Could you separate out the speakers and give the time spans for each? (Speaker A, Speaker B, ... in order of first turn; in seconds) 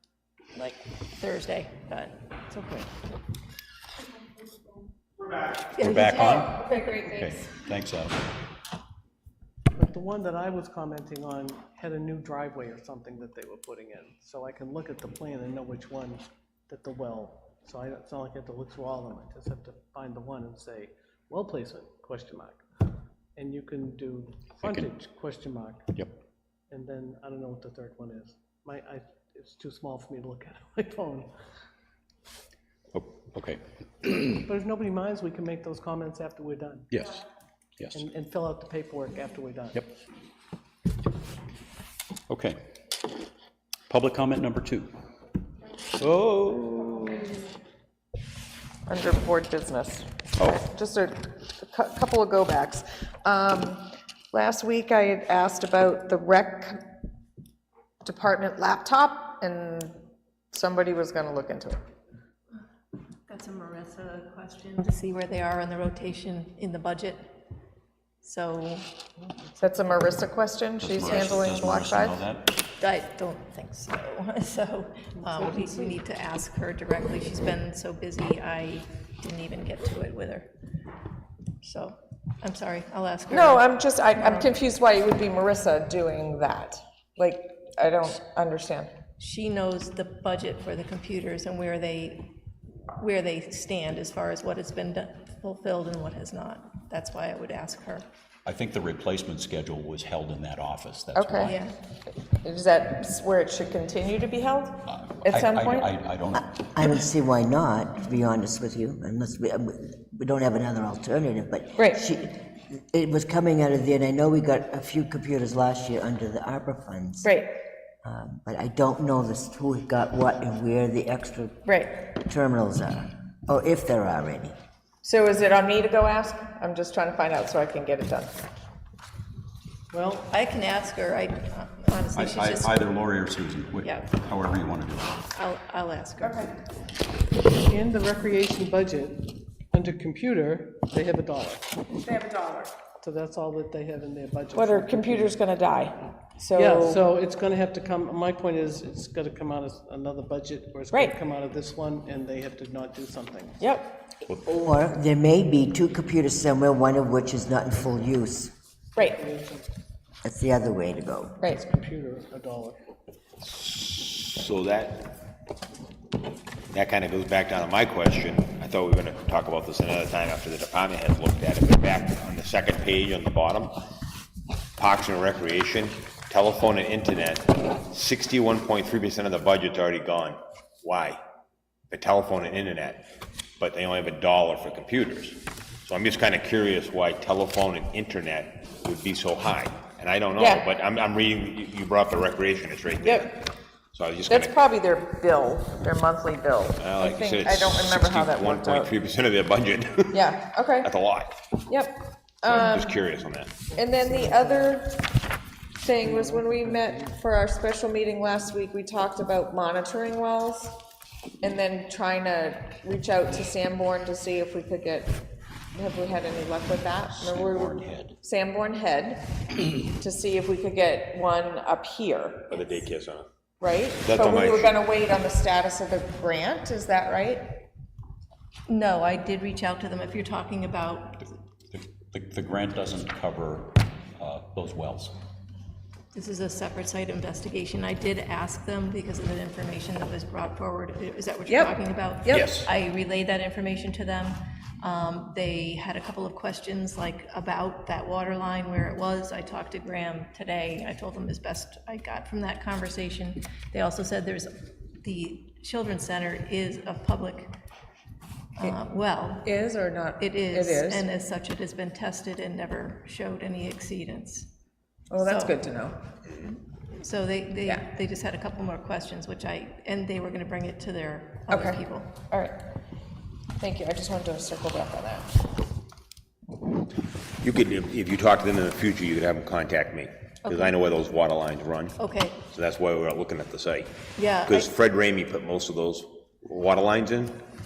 Speaker A: 0.6-2.2, 5.8-7.0, 63.3-67.4, 68.2-68.9, 72.8-80.5, 81.6-84.5, 89.2-92.3, 93.0-98.0, 101.4-101.8, 130.3-132.8, 133.8-134.1, 135.3-136.4, 228.7-231.3, 236.1-257.5, 258.6-259.5, 260.2-264.5, 265.2-265.6, 266.4-272.1, 280.4-280.8, 282.0-282.4, 284.2-284.7
Speaker B: 2.5-2.9, 6.3-7.5, 48.9-56.8, 58.0-61.8, 69.6-72.2, 83.3-88.9, 101.1-101.5, 102.1-105.9, 111.8-112.0, 117.2-117.5, 121.7-121.9, 125.0-128.4, 136.2-136.5, 142.0-142.7, 144.6-147.0, 153.6-154.1, 190.4-190.7, 193.0-193.4, 194.3-198.9, 200.1-200.9, 201.7-203.0, 203.7-205.0, 205.8-210.8, 211.4-215.2, 215.7-219.2, 219.9-222.8, 223.6-227.5, 241.5-242.6, 259.4-261.1, 265.1-266.0, 271.5-272.7, 273.6-275.4
Speaker C: 5.8-8.2, 32.9-34.4, 36.9-37.2, 42.3-42.6, 43.9-44.9, 45.9-47.4, 70.8-72.6, 98.5-101.6, 104.9-106.6, 132.1-135.2, 217.1-218.2, 231.7-235.1, 242.3-242.7
Speaker D: 9.7-22.6, 23.4-26.0, 26.7-31.3, 34.5-36.9, 37.9-39.9, 69.2-70.1, 75.5-75.9, 129.9-130.3, 137.6-141.8, 143.0-145.4, 146.5-153.6, 159.0-159.7, 161.5-162.8, 203.7-204.7, 206.0-207.2
Speaker E: 106.5-117.3, 118.0-124.6, 154.6-158.5, 160.2-161.4
Speaker F: 163.4-165.2, 166.7-173.7, 174.8-181.2, 181.9-193.3, 193.9-194.6, 196.8-200.3, 200.8-201.4, 202.4-203.6, 222.7-223.3, 224.0-224.8, 277.4-283.9, 284.4-287.4